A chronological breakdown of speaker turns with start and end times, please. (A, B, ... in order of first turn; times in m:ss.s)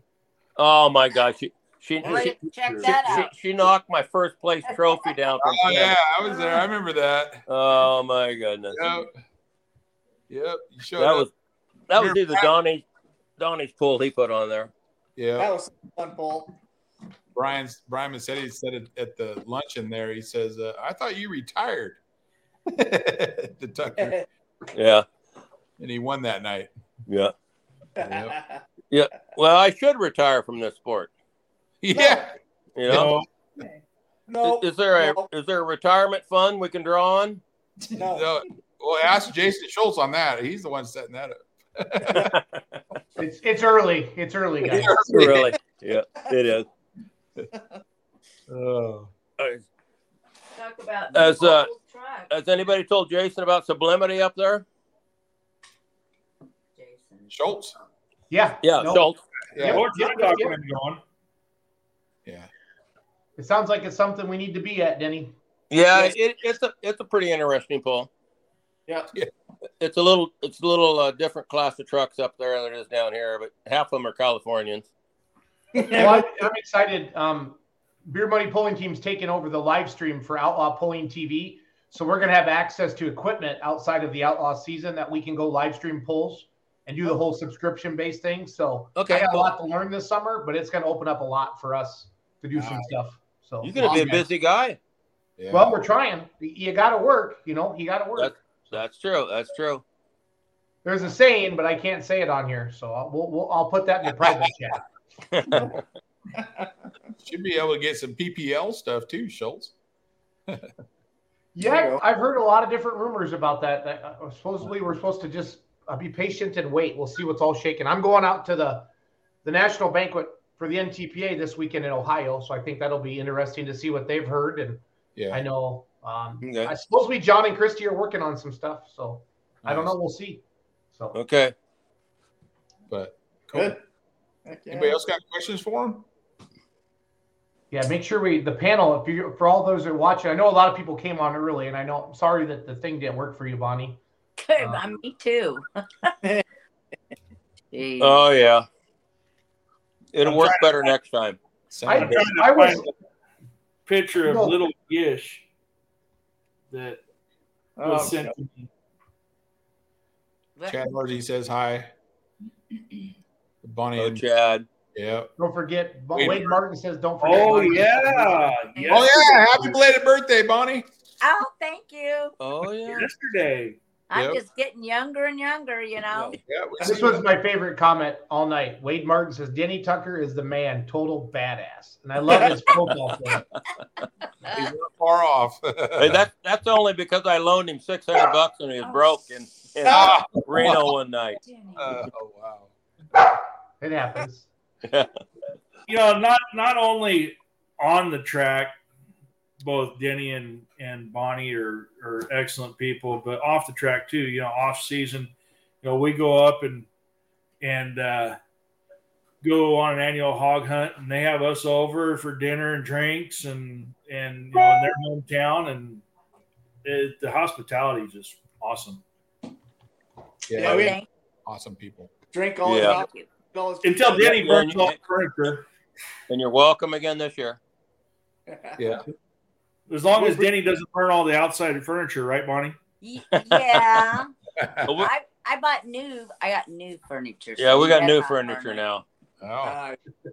0:00.6-0:06.0 A
0:02.0-0:03.4 B
0:02.6-0:02.9 C
0:04.7-0:05.1 B
0:05.4-0:07.4 D
0:07.5-0:08.8 A
0:08.7-0:09.1 D
0:10.3-0:11.3 D
0:11.0-0:11.3 A
0:11.9-0:12.8 A
0:12.0-0:12.5 D
0:13.4-0:14.7 A
0:15.2-0:15.5 D
0:15.4-0:16.5 E
0:17.4-0:22.0 D
0:22.7-0:24.2 D
0:24.0-0:24.2 E
0:24.7-0:25.1 A
0:25.8-0:26.7 D
0:27.1-0:27.3 A
0:28.0-0:28.6 E
0:28.0-0:28.4 D
0:28.9-0:31.1 A
0:31.8-0:32.3 D
0:31.9-0:32.3 E
0:32.8-0:33.2 A
0:32.9-0:33.2 D
0:32.9-0:33.3 C
0:34.3-0:35.3 E
0:34.4-0:37.4 A
0:37.9-0:38.3 E
0:38.1-0:42.3 D
0:42.1-0:42.8 A
0:43.2-0:45.0 F
0:44.7-0:45.5 D
0:44.8-0:46.7 A
0:47.5-0:47.8 E
0:48.5-0:49.1 D
0:49.4-0:49.6 A
0:50.6-0:52.7 B
0:51.1-0:51.7 A
0:52.3-0:54.6 A
0:56.8-0:57.5 B
0:57.3-0:57.8 D
0:58.3-0:59.1 F
0:58.6-0:59.2 A
0:59.5-0:59.8 D
0:59.6-1:00.6 F
0:59.6-1:01.0 C
1:03.4-1:05.3 F
1:05.7-1:08.1 A
1:09.8-1:14.9 A
1:15.8-1:16.3 E
1:15.9-1:34.2 F
1:29.0-1:29.5 A
1:32.6-1:32.9 D
1:33.6-1:34.8 A
1:33.8-1:34.2 D
1:35.4-1:35.8 D
1:35.5-1:38.8 F
1:38.2-1:39.8 A
1:40.8-1:44.8 F
1:45.3-1:45.8 A
1:46.4-1:46.7 E
1:47.2-1:49.7 D
1:51.6-1:58.9 F
1:51.6-1:52.0 E
1:59.4-2:10.4 F
2:05.2-2:05.4 D
2:06.4-2:06.7 A
2:09.6-2:10.0 D
2:11.1-2:11.5 A
2:12.9-2:13.8 D
2:13.5-2:13.8 E
2:14.5-2:15.0 E
2:14.7-2:16.0 D
2:17.7-2:24.0 F
2:24.4-2:26.1 B
2:27.7-2:28.3 B
2:28.0-2:28.7 A
2:30.1-2:31.4 A
2:30.2-2:30.7 C
2:31.7-2:32.4 D
2:31.9-2:32.9 F
2:31.9-2:32.9 C
2:33.9-2:35.4 C
2:34.2-2:34.6 F
2:36.7-2:37.0 C
2:37.8-2:38.4 E
2:37.8-2:38.7 C
2:40.6-2:40.9 B
2:40.7-2:41.9 D
2:43.6-2:44.2 D
2:44.0-2:44.7 A
2:44.9-2:45.3 D
2:45.4-2:48.6 F
2:46.1-2:46.6 D
2:47.2-2:49.6 C
2:48.8-2:49.3 B
2:48.9-2:50.9 D
2:51.2-2:52.4 B
2:52.4-2:53.1 A
2:52.9-2:53.8 C
2:54.1-2:56.4 B
2:54.1-2:54.4 D
2:56.1-2:56.4 A
2:56.4-2:57.2 D
2:56.8-3:03.5 F
3:02.4-3:02.9 A
3:04.5-3:06.2 D
3:06.0-3:11.4 A
3:09.8-3:10.1 E
3:09.9-3:10.9 D
3:11.8-3:12.7 D
3:13.8-3:14.5 F
3:14.8-3:15.1 A
3:15.9-3:18.8 C
3:19.6-3:26.9 C
3:27.6-3:28.4 C
3:29.4-3:36.0 C
3:36.8-3:39.0 C
3:40.5-3:42.1 D
3:40.6-3:41.0 E
3:40.6-3:41.1 B
3:42.3-3:44.2 E
3:42.6-3:43.0 A
3:42.9-3:43.3 B
3:43.8-3:45.7 C
3:44.2-3:45.0 A
3:46.3-3:47.6 A
3:48.5-3:48.9 E
3:48.8-3:49.0 D
3:49.9-3:52.8 C
3:50.2-3:50.5 E
3:53.0-3:54.3 B
3:53.3-3:54.1 A
3:54.6-3:54.9 D
3:55.0-3:58.8 B
3:57.6-3:59.0 A
3:59.4-3:59.8 D
3:59.6-4:00.0 E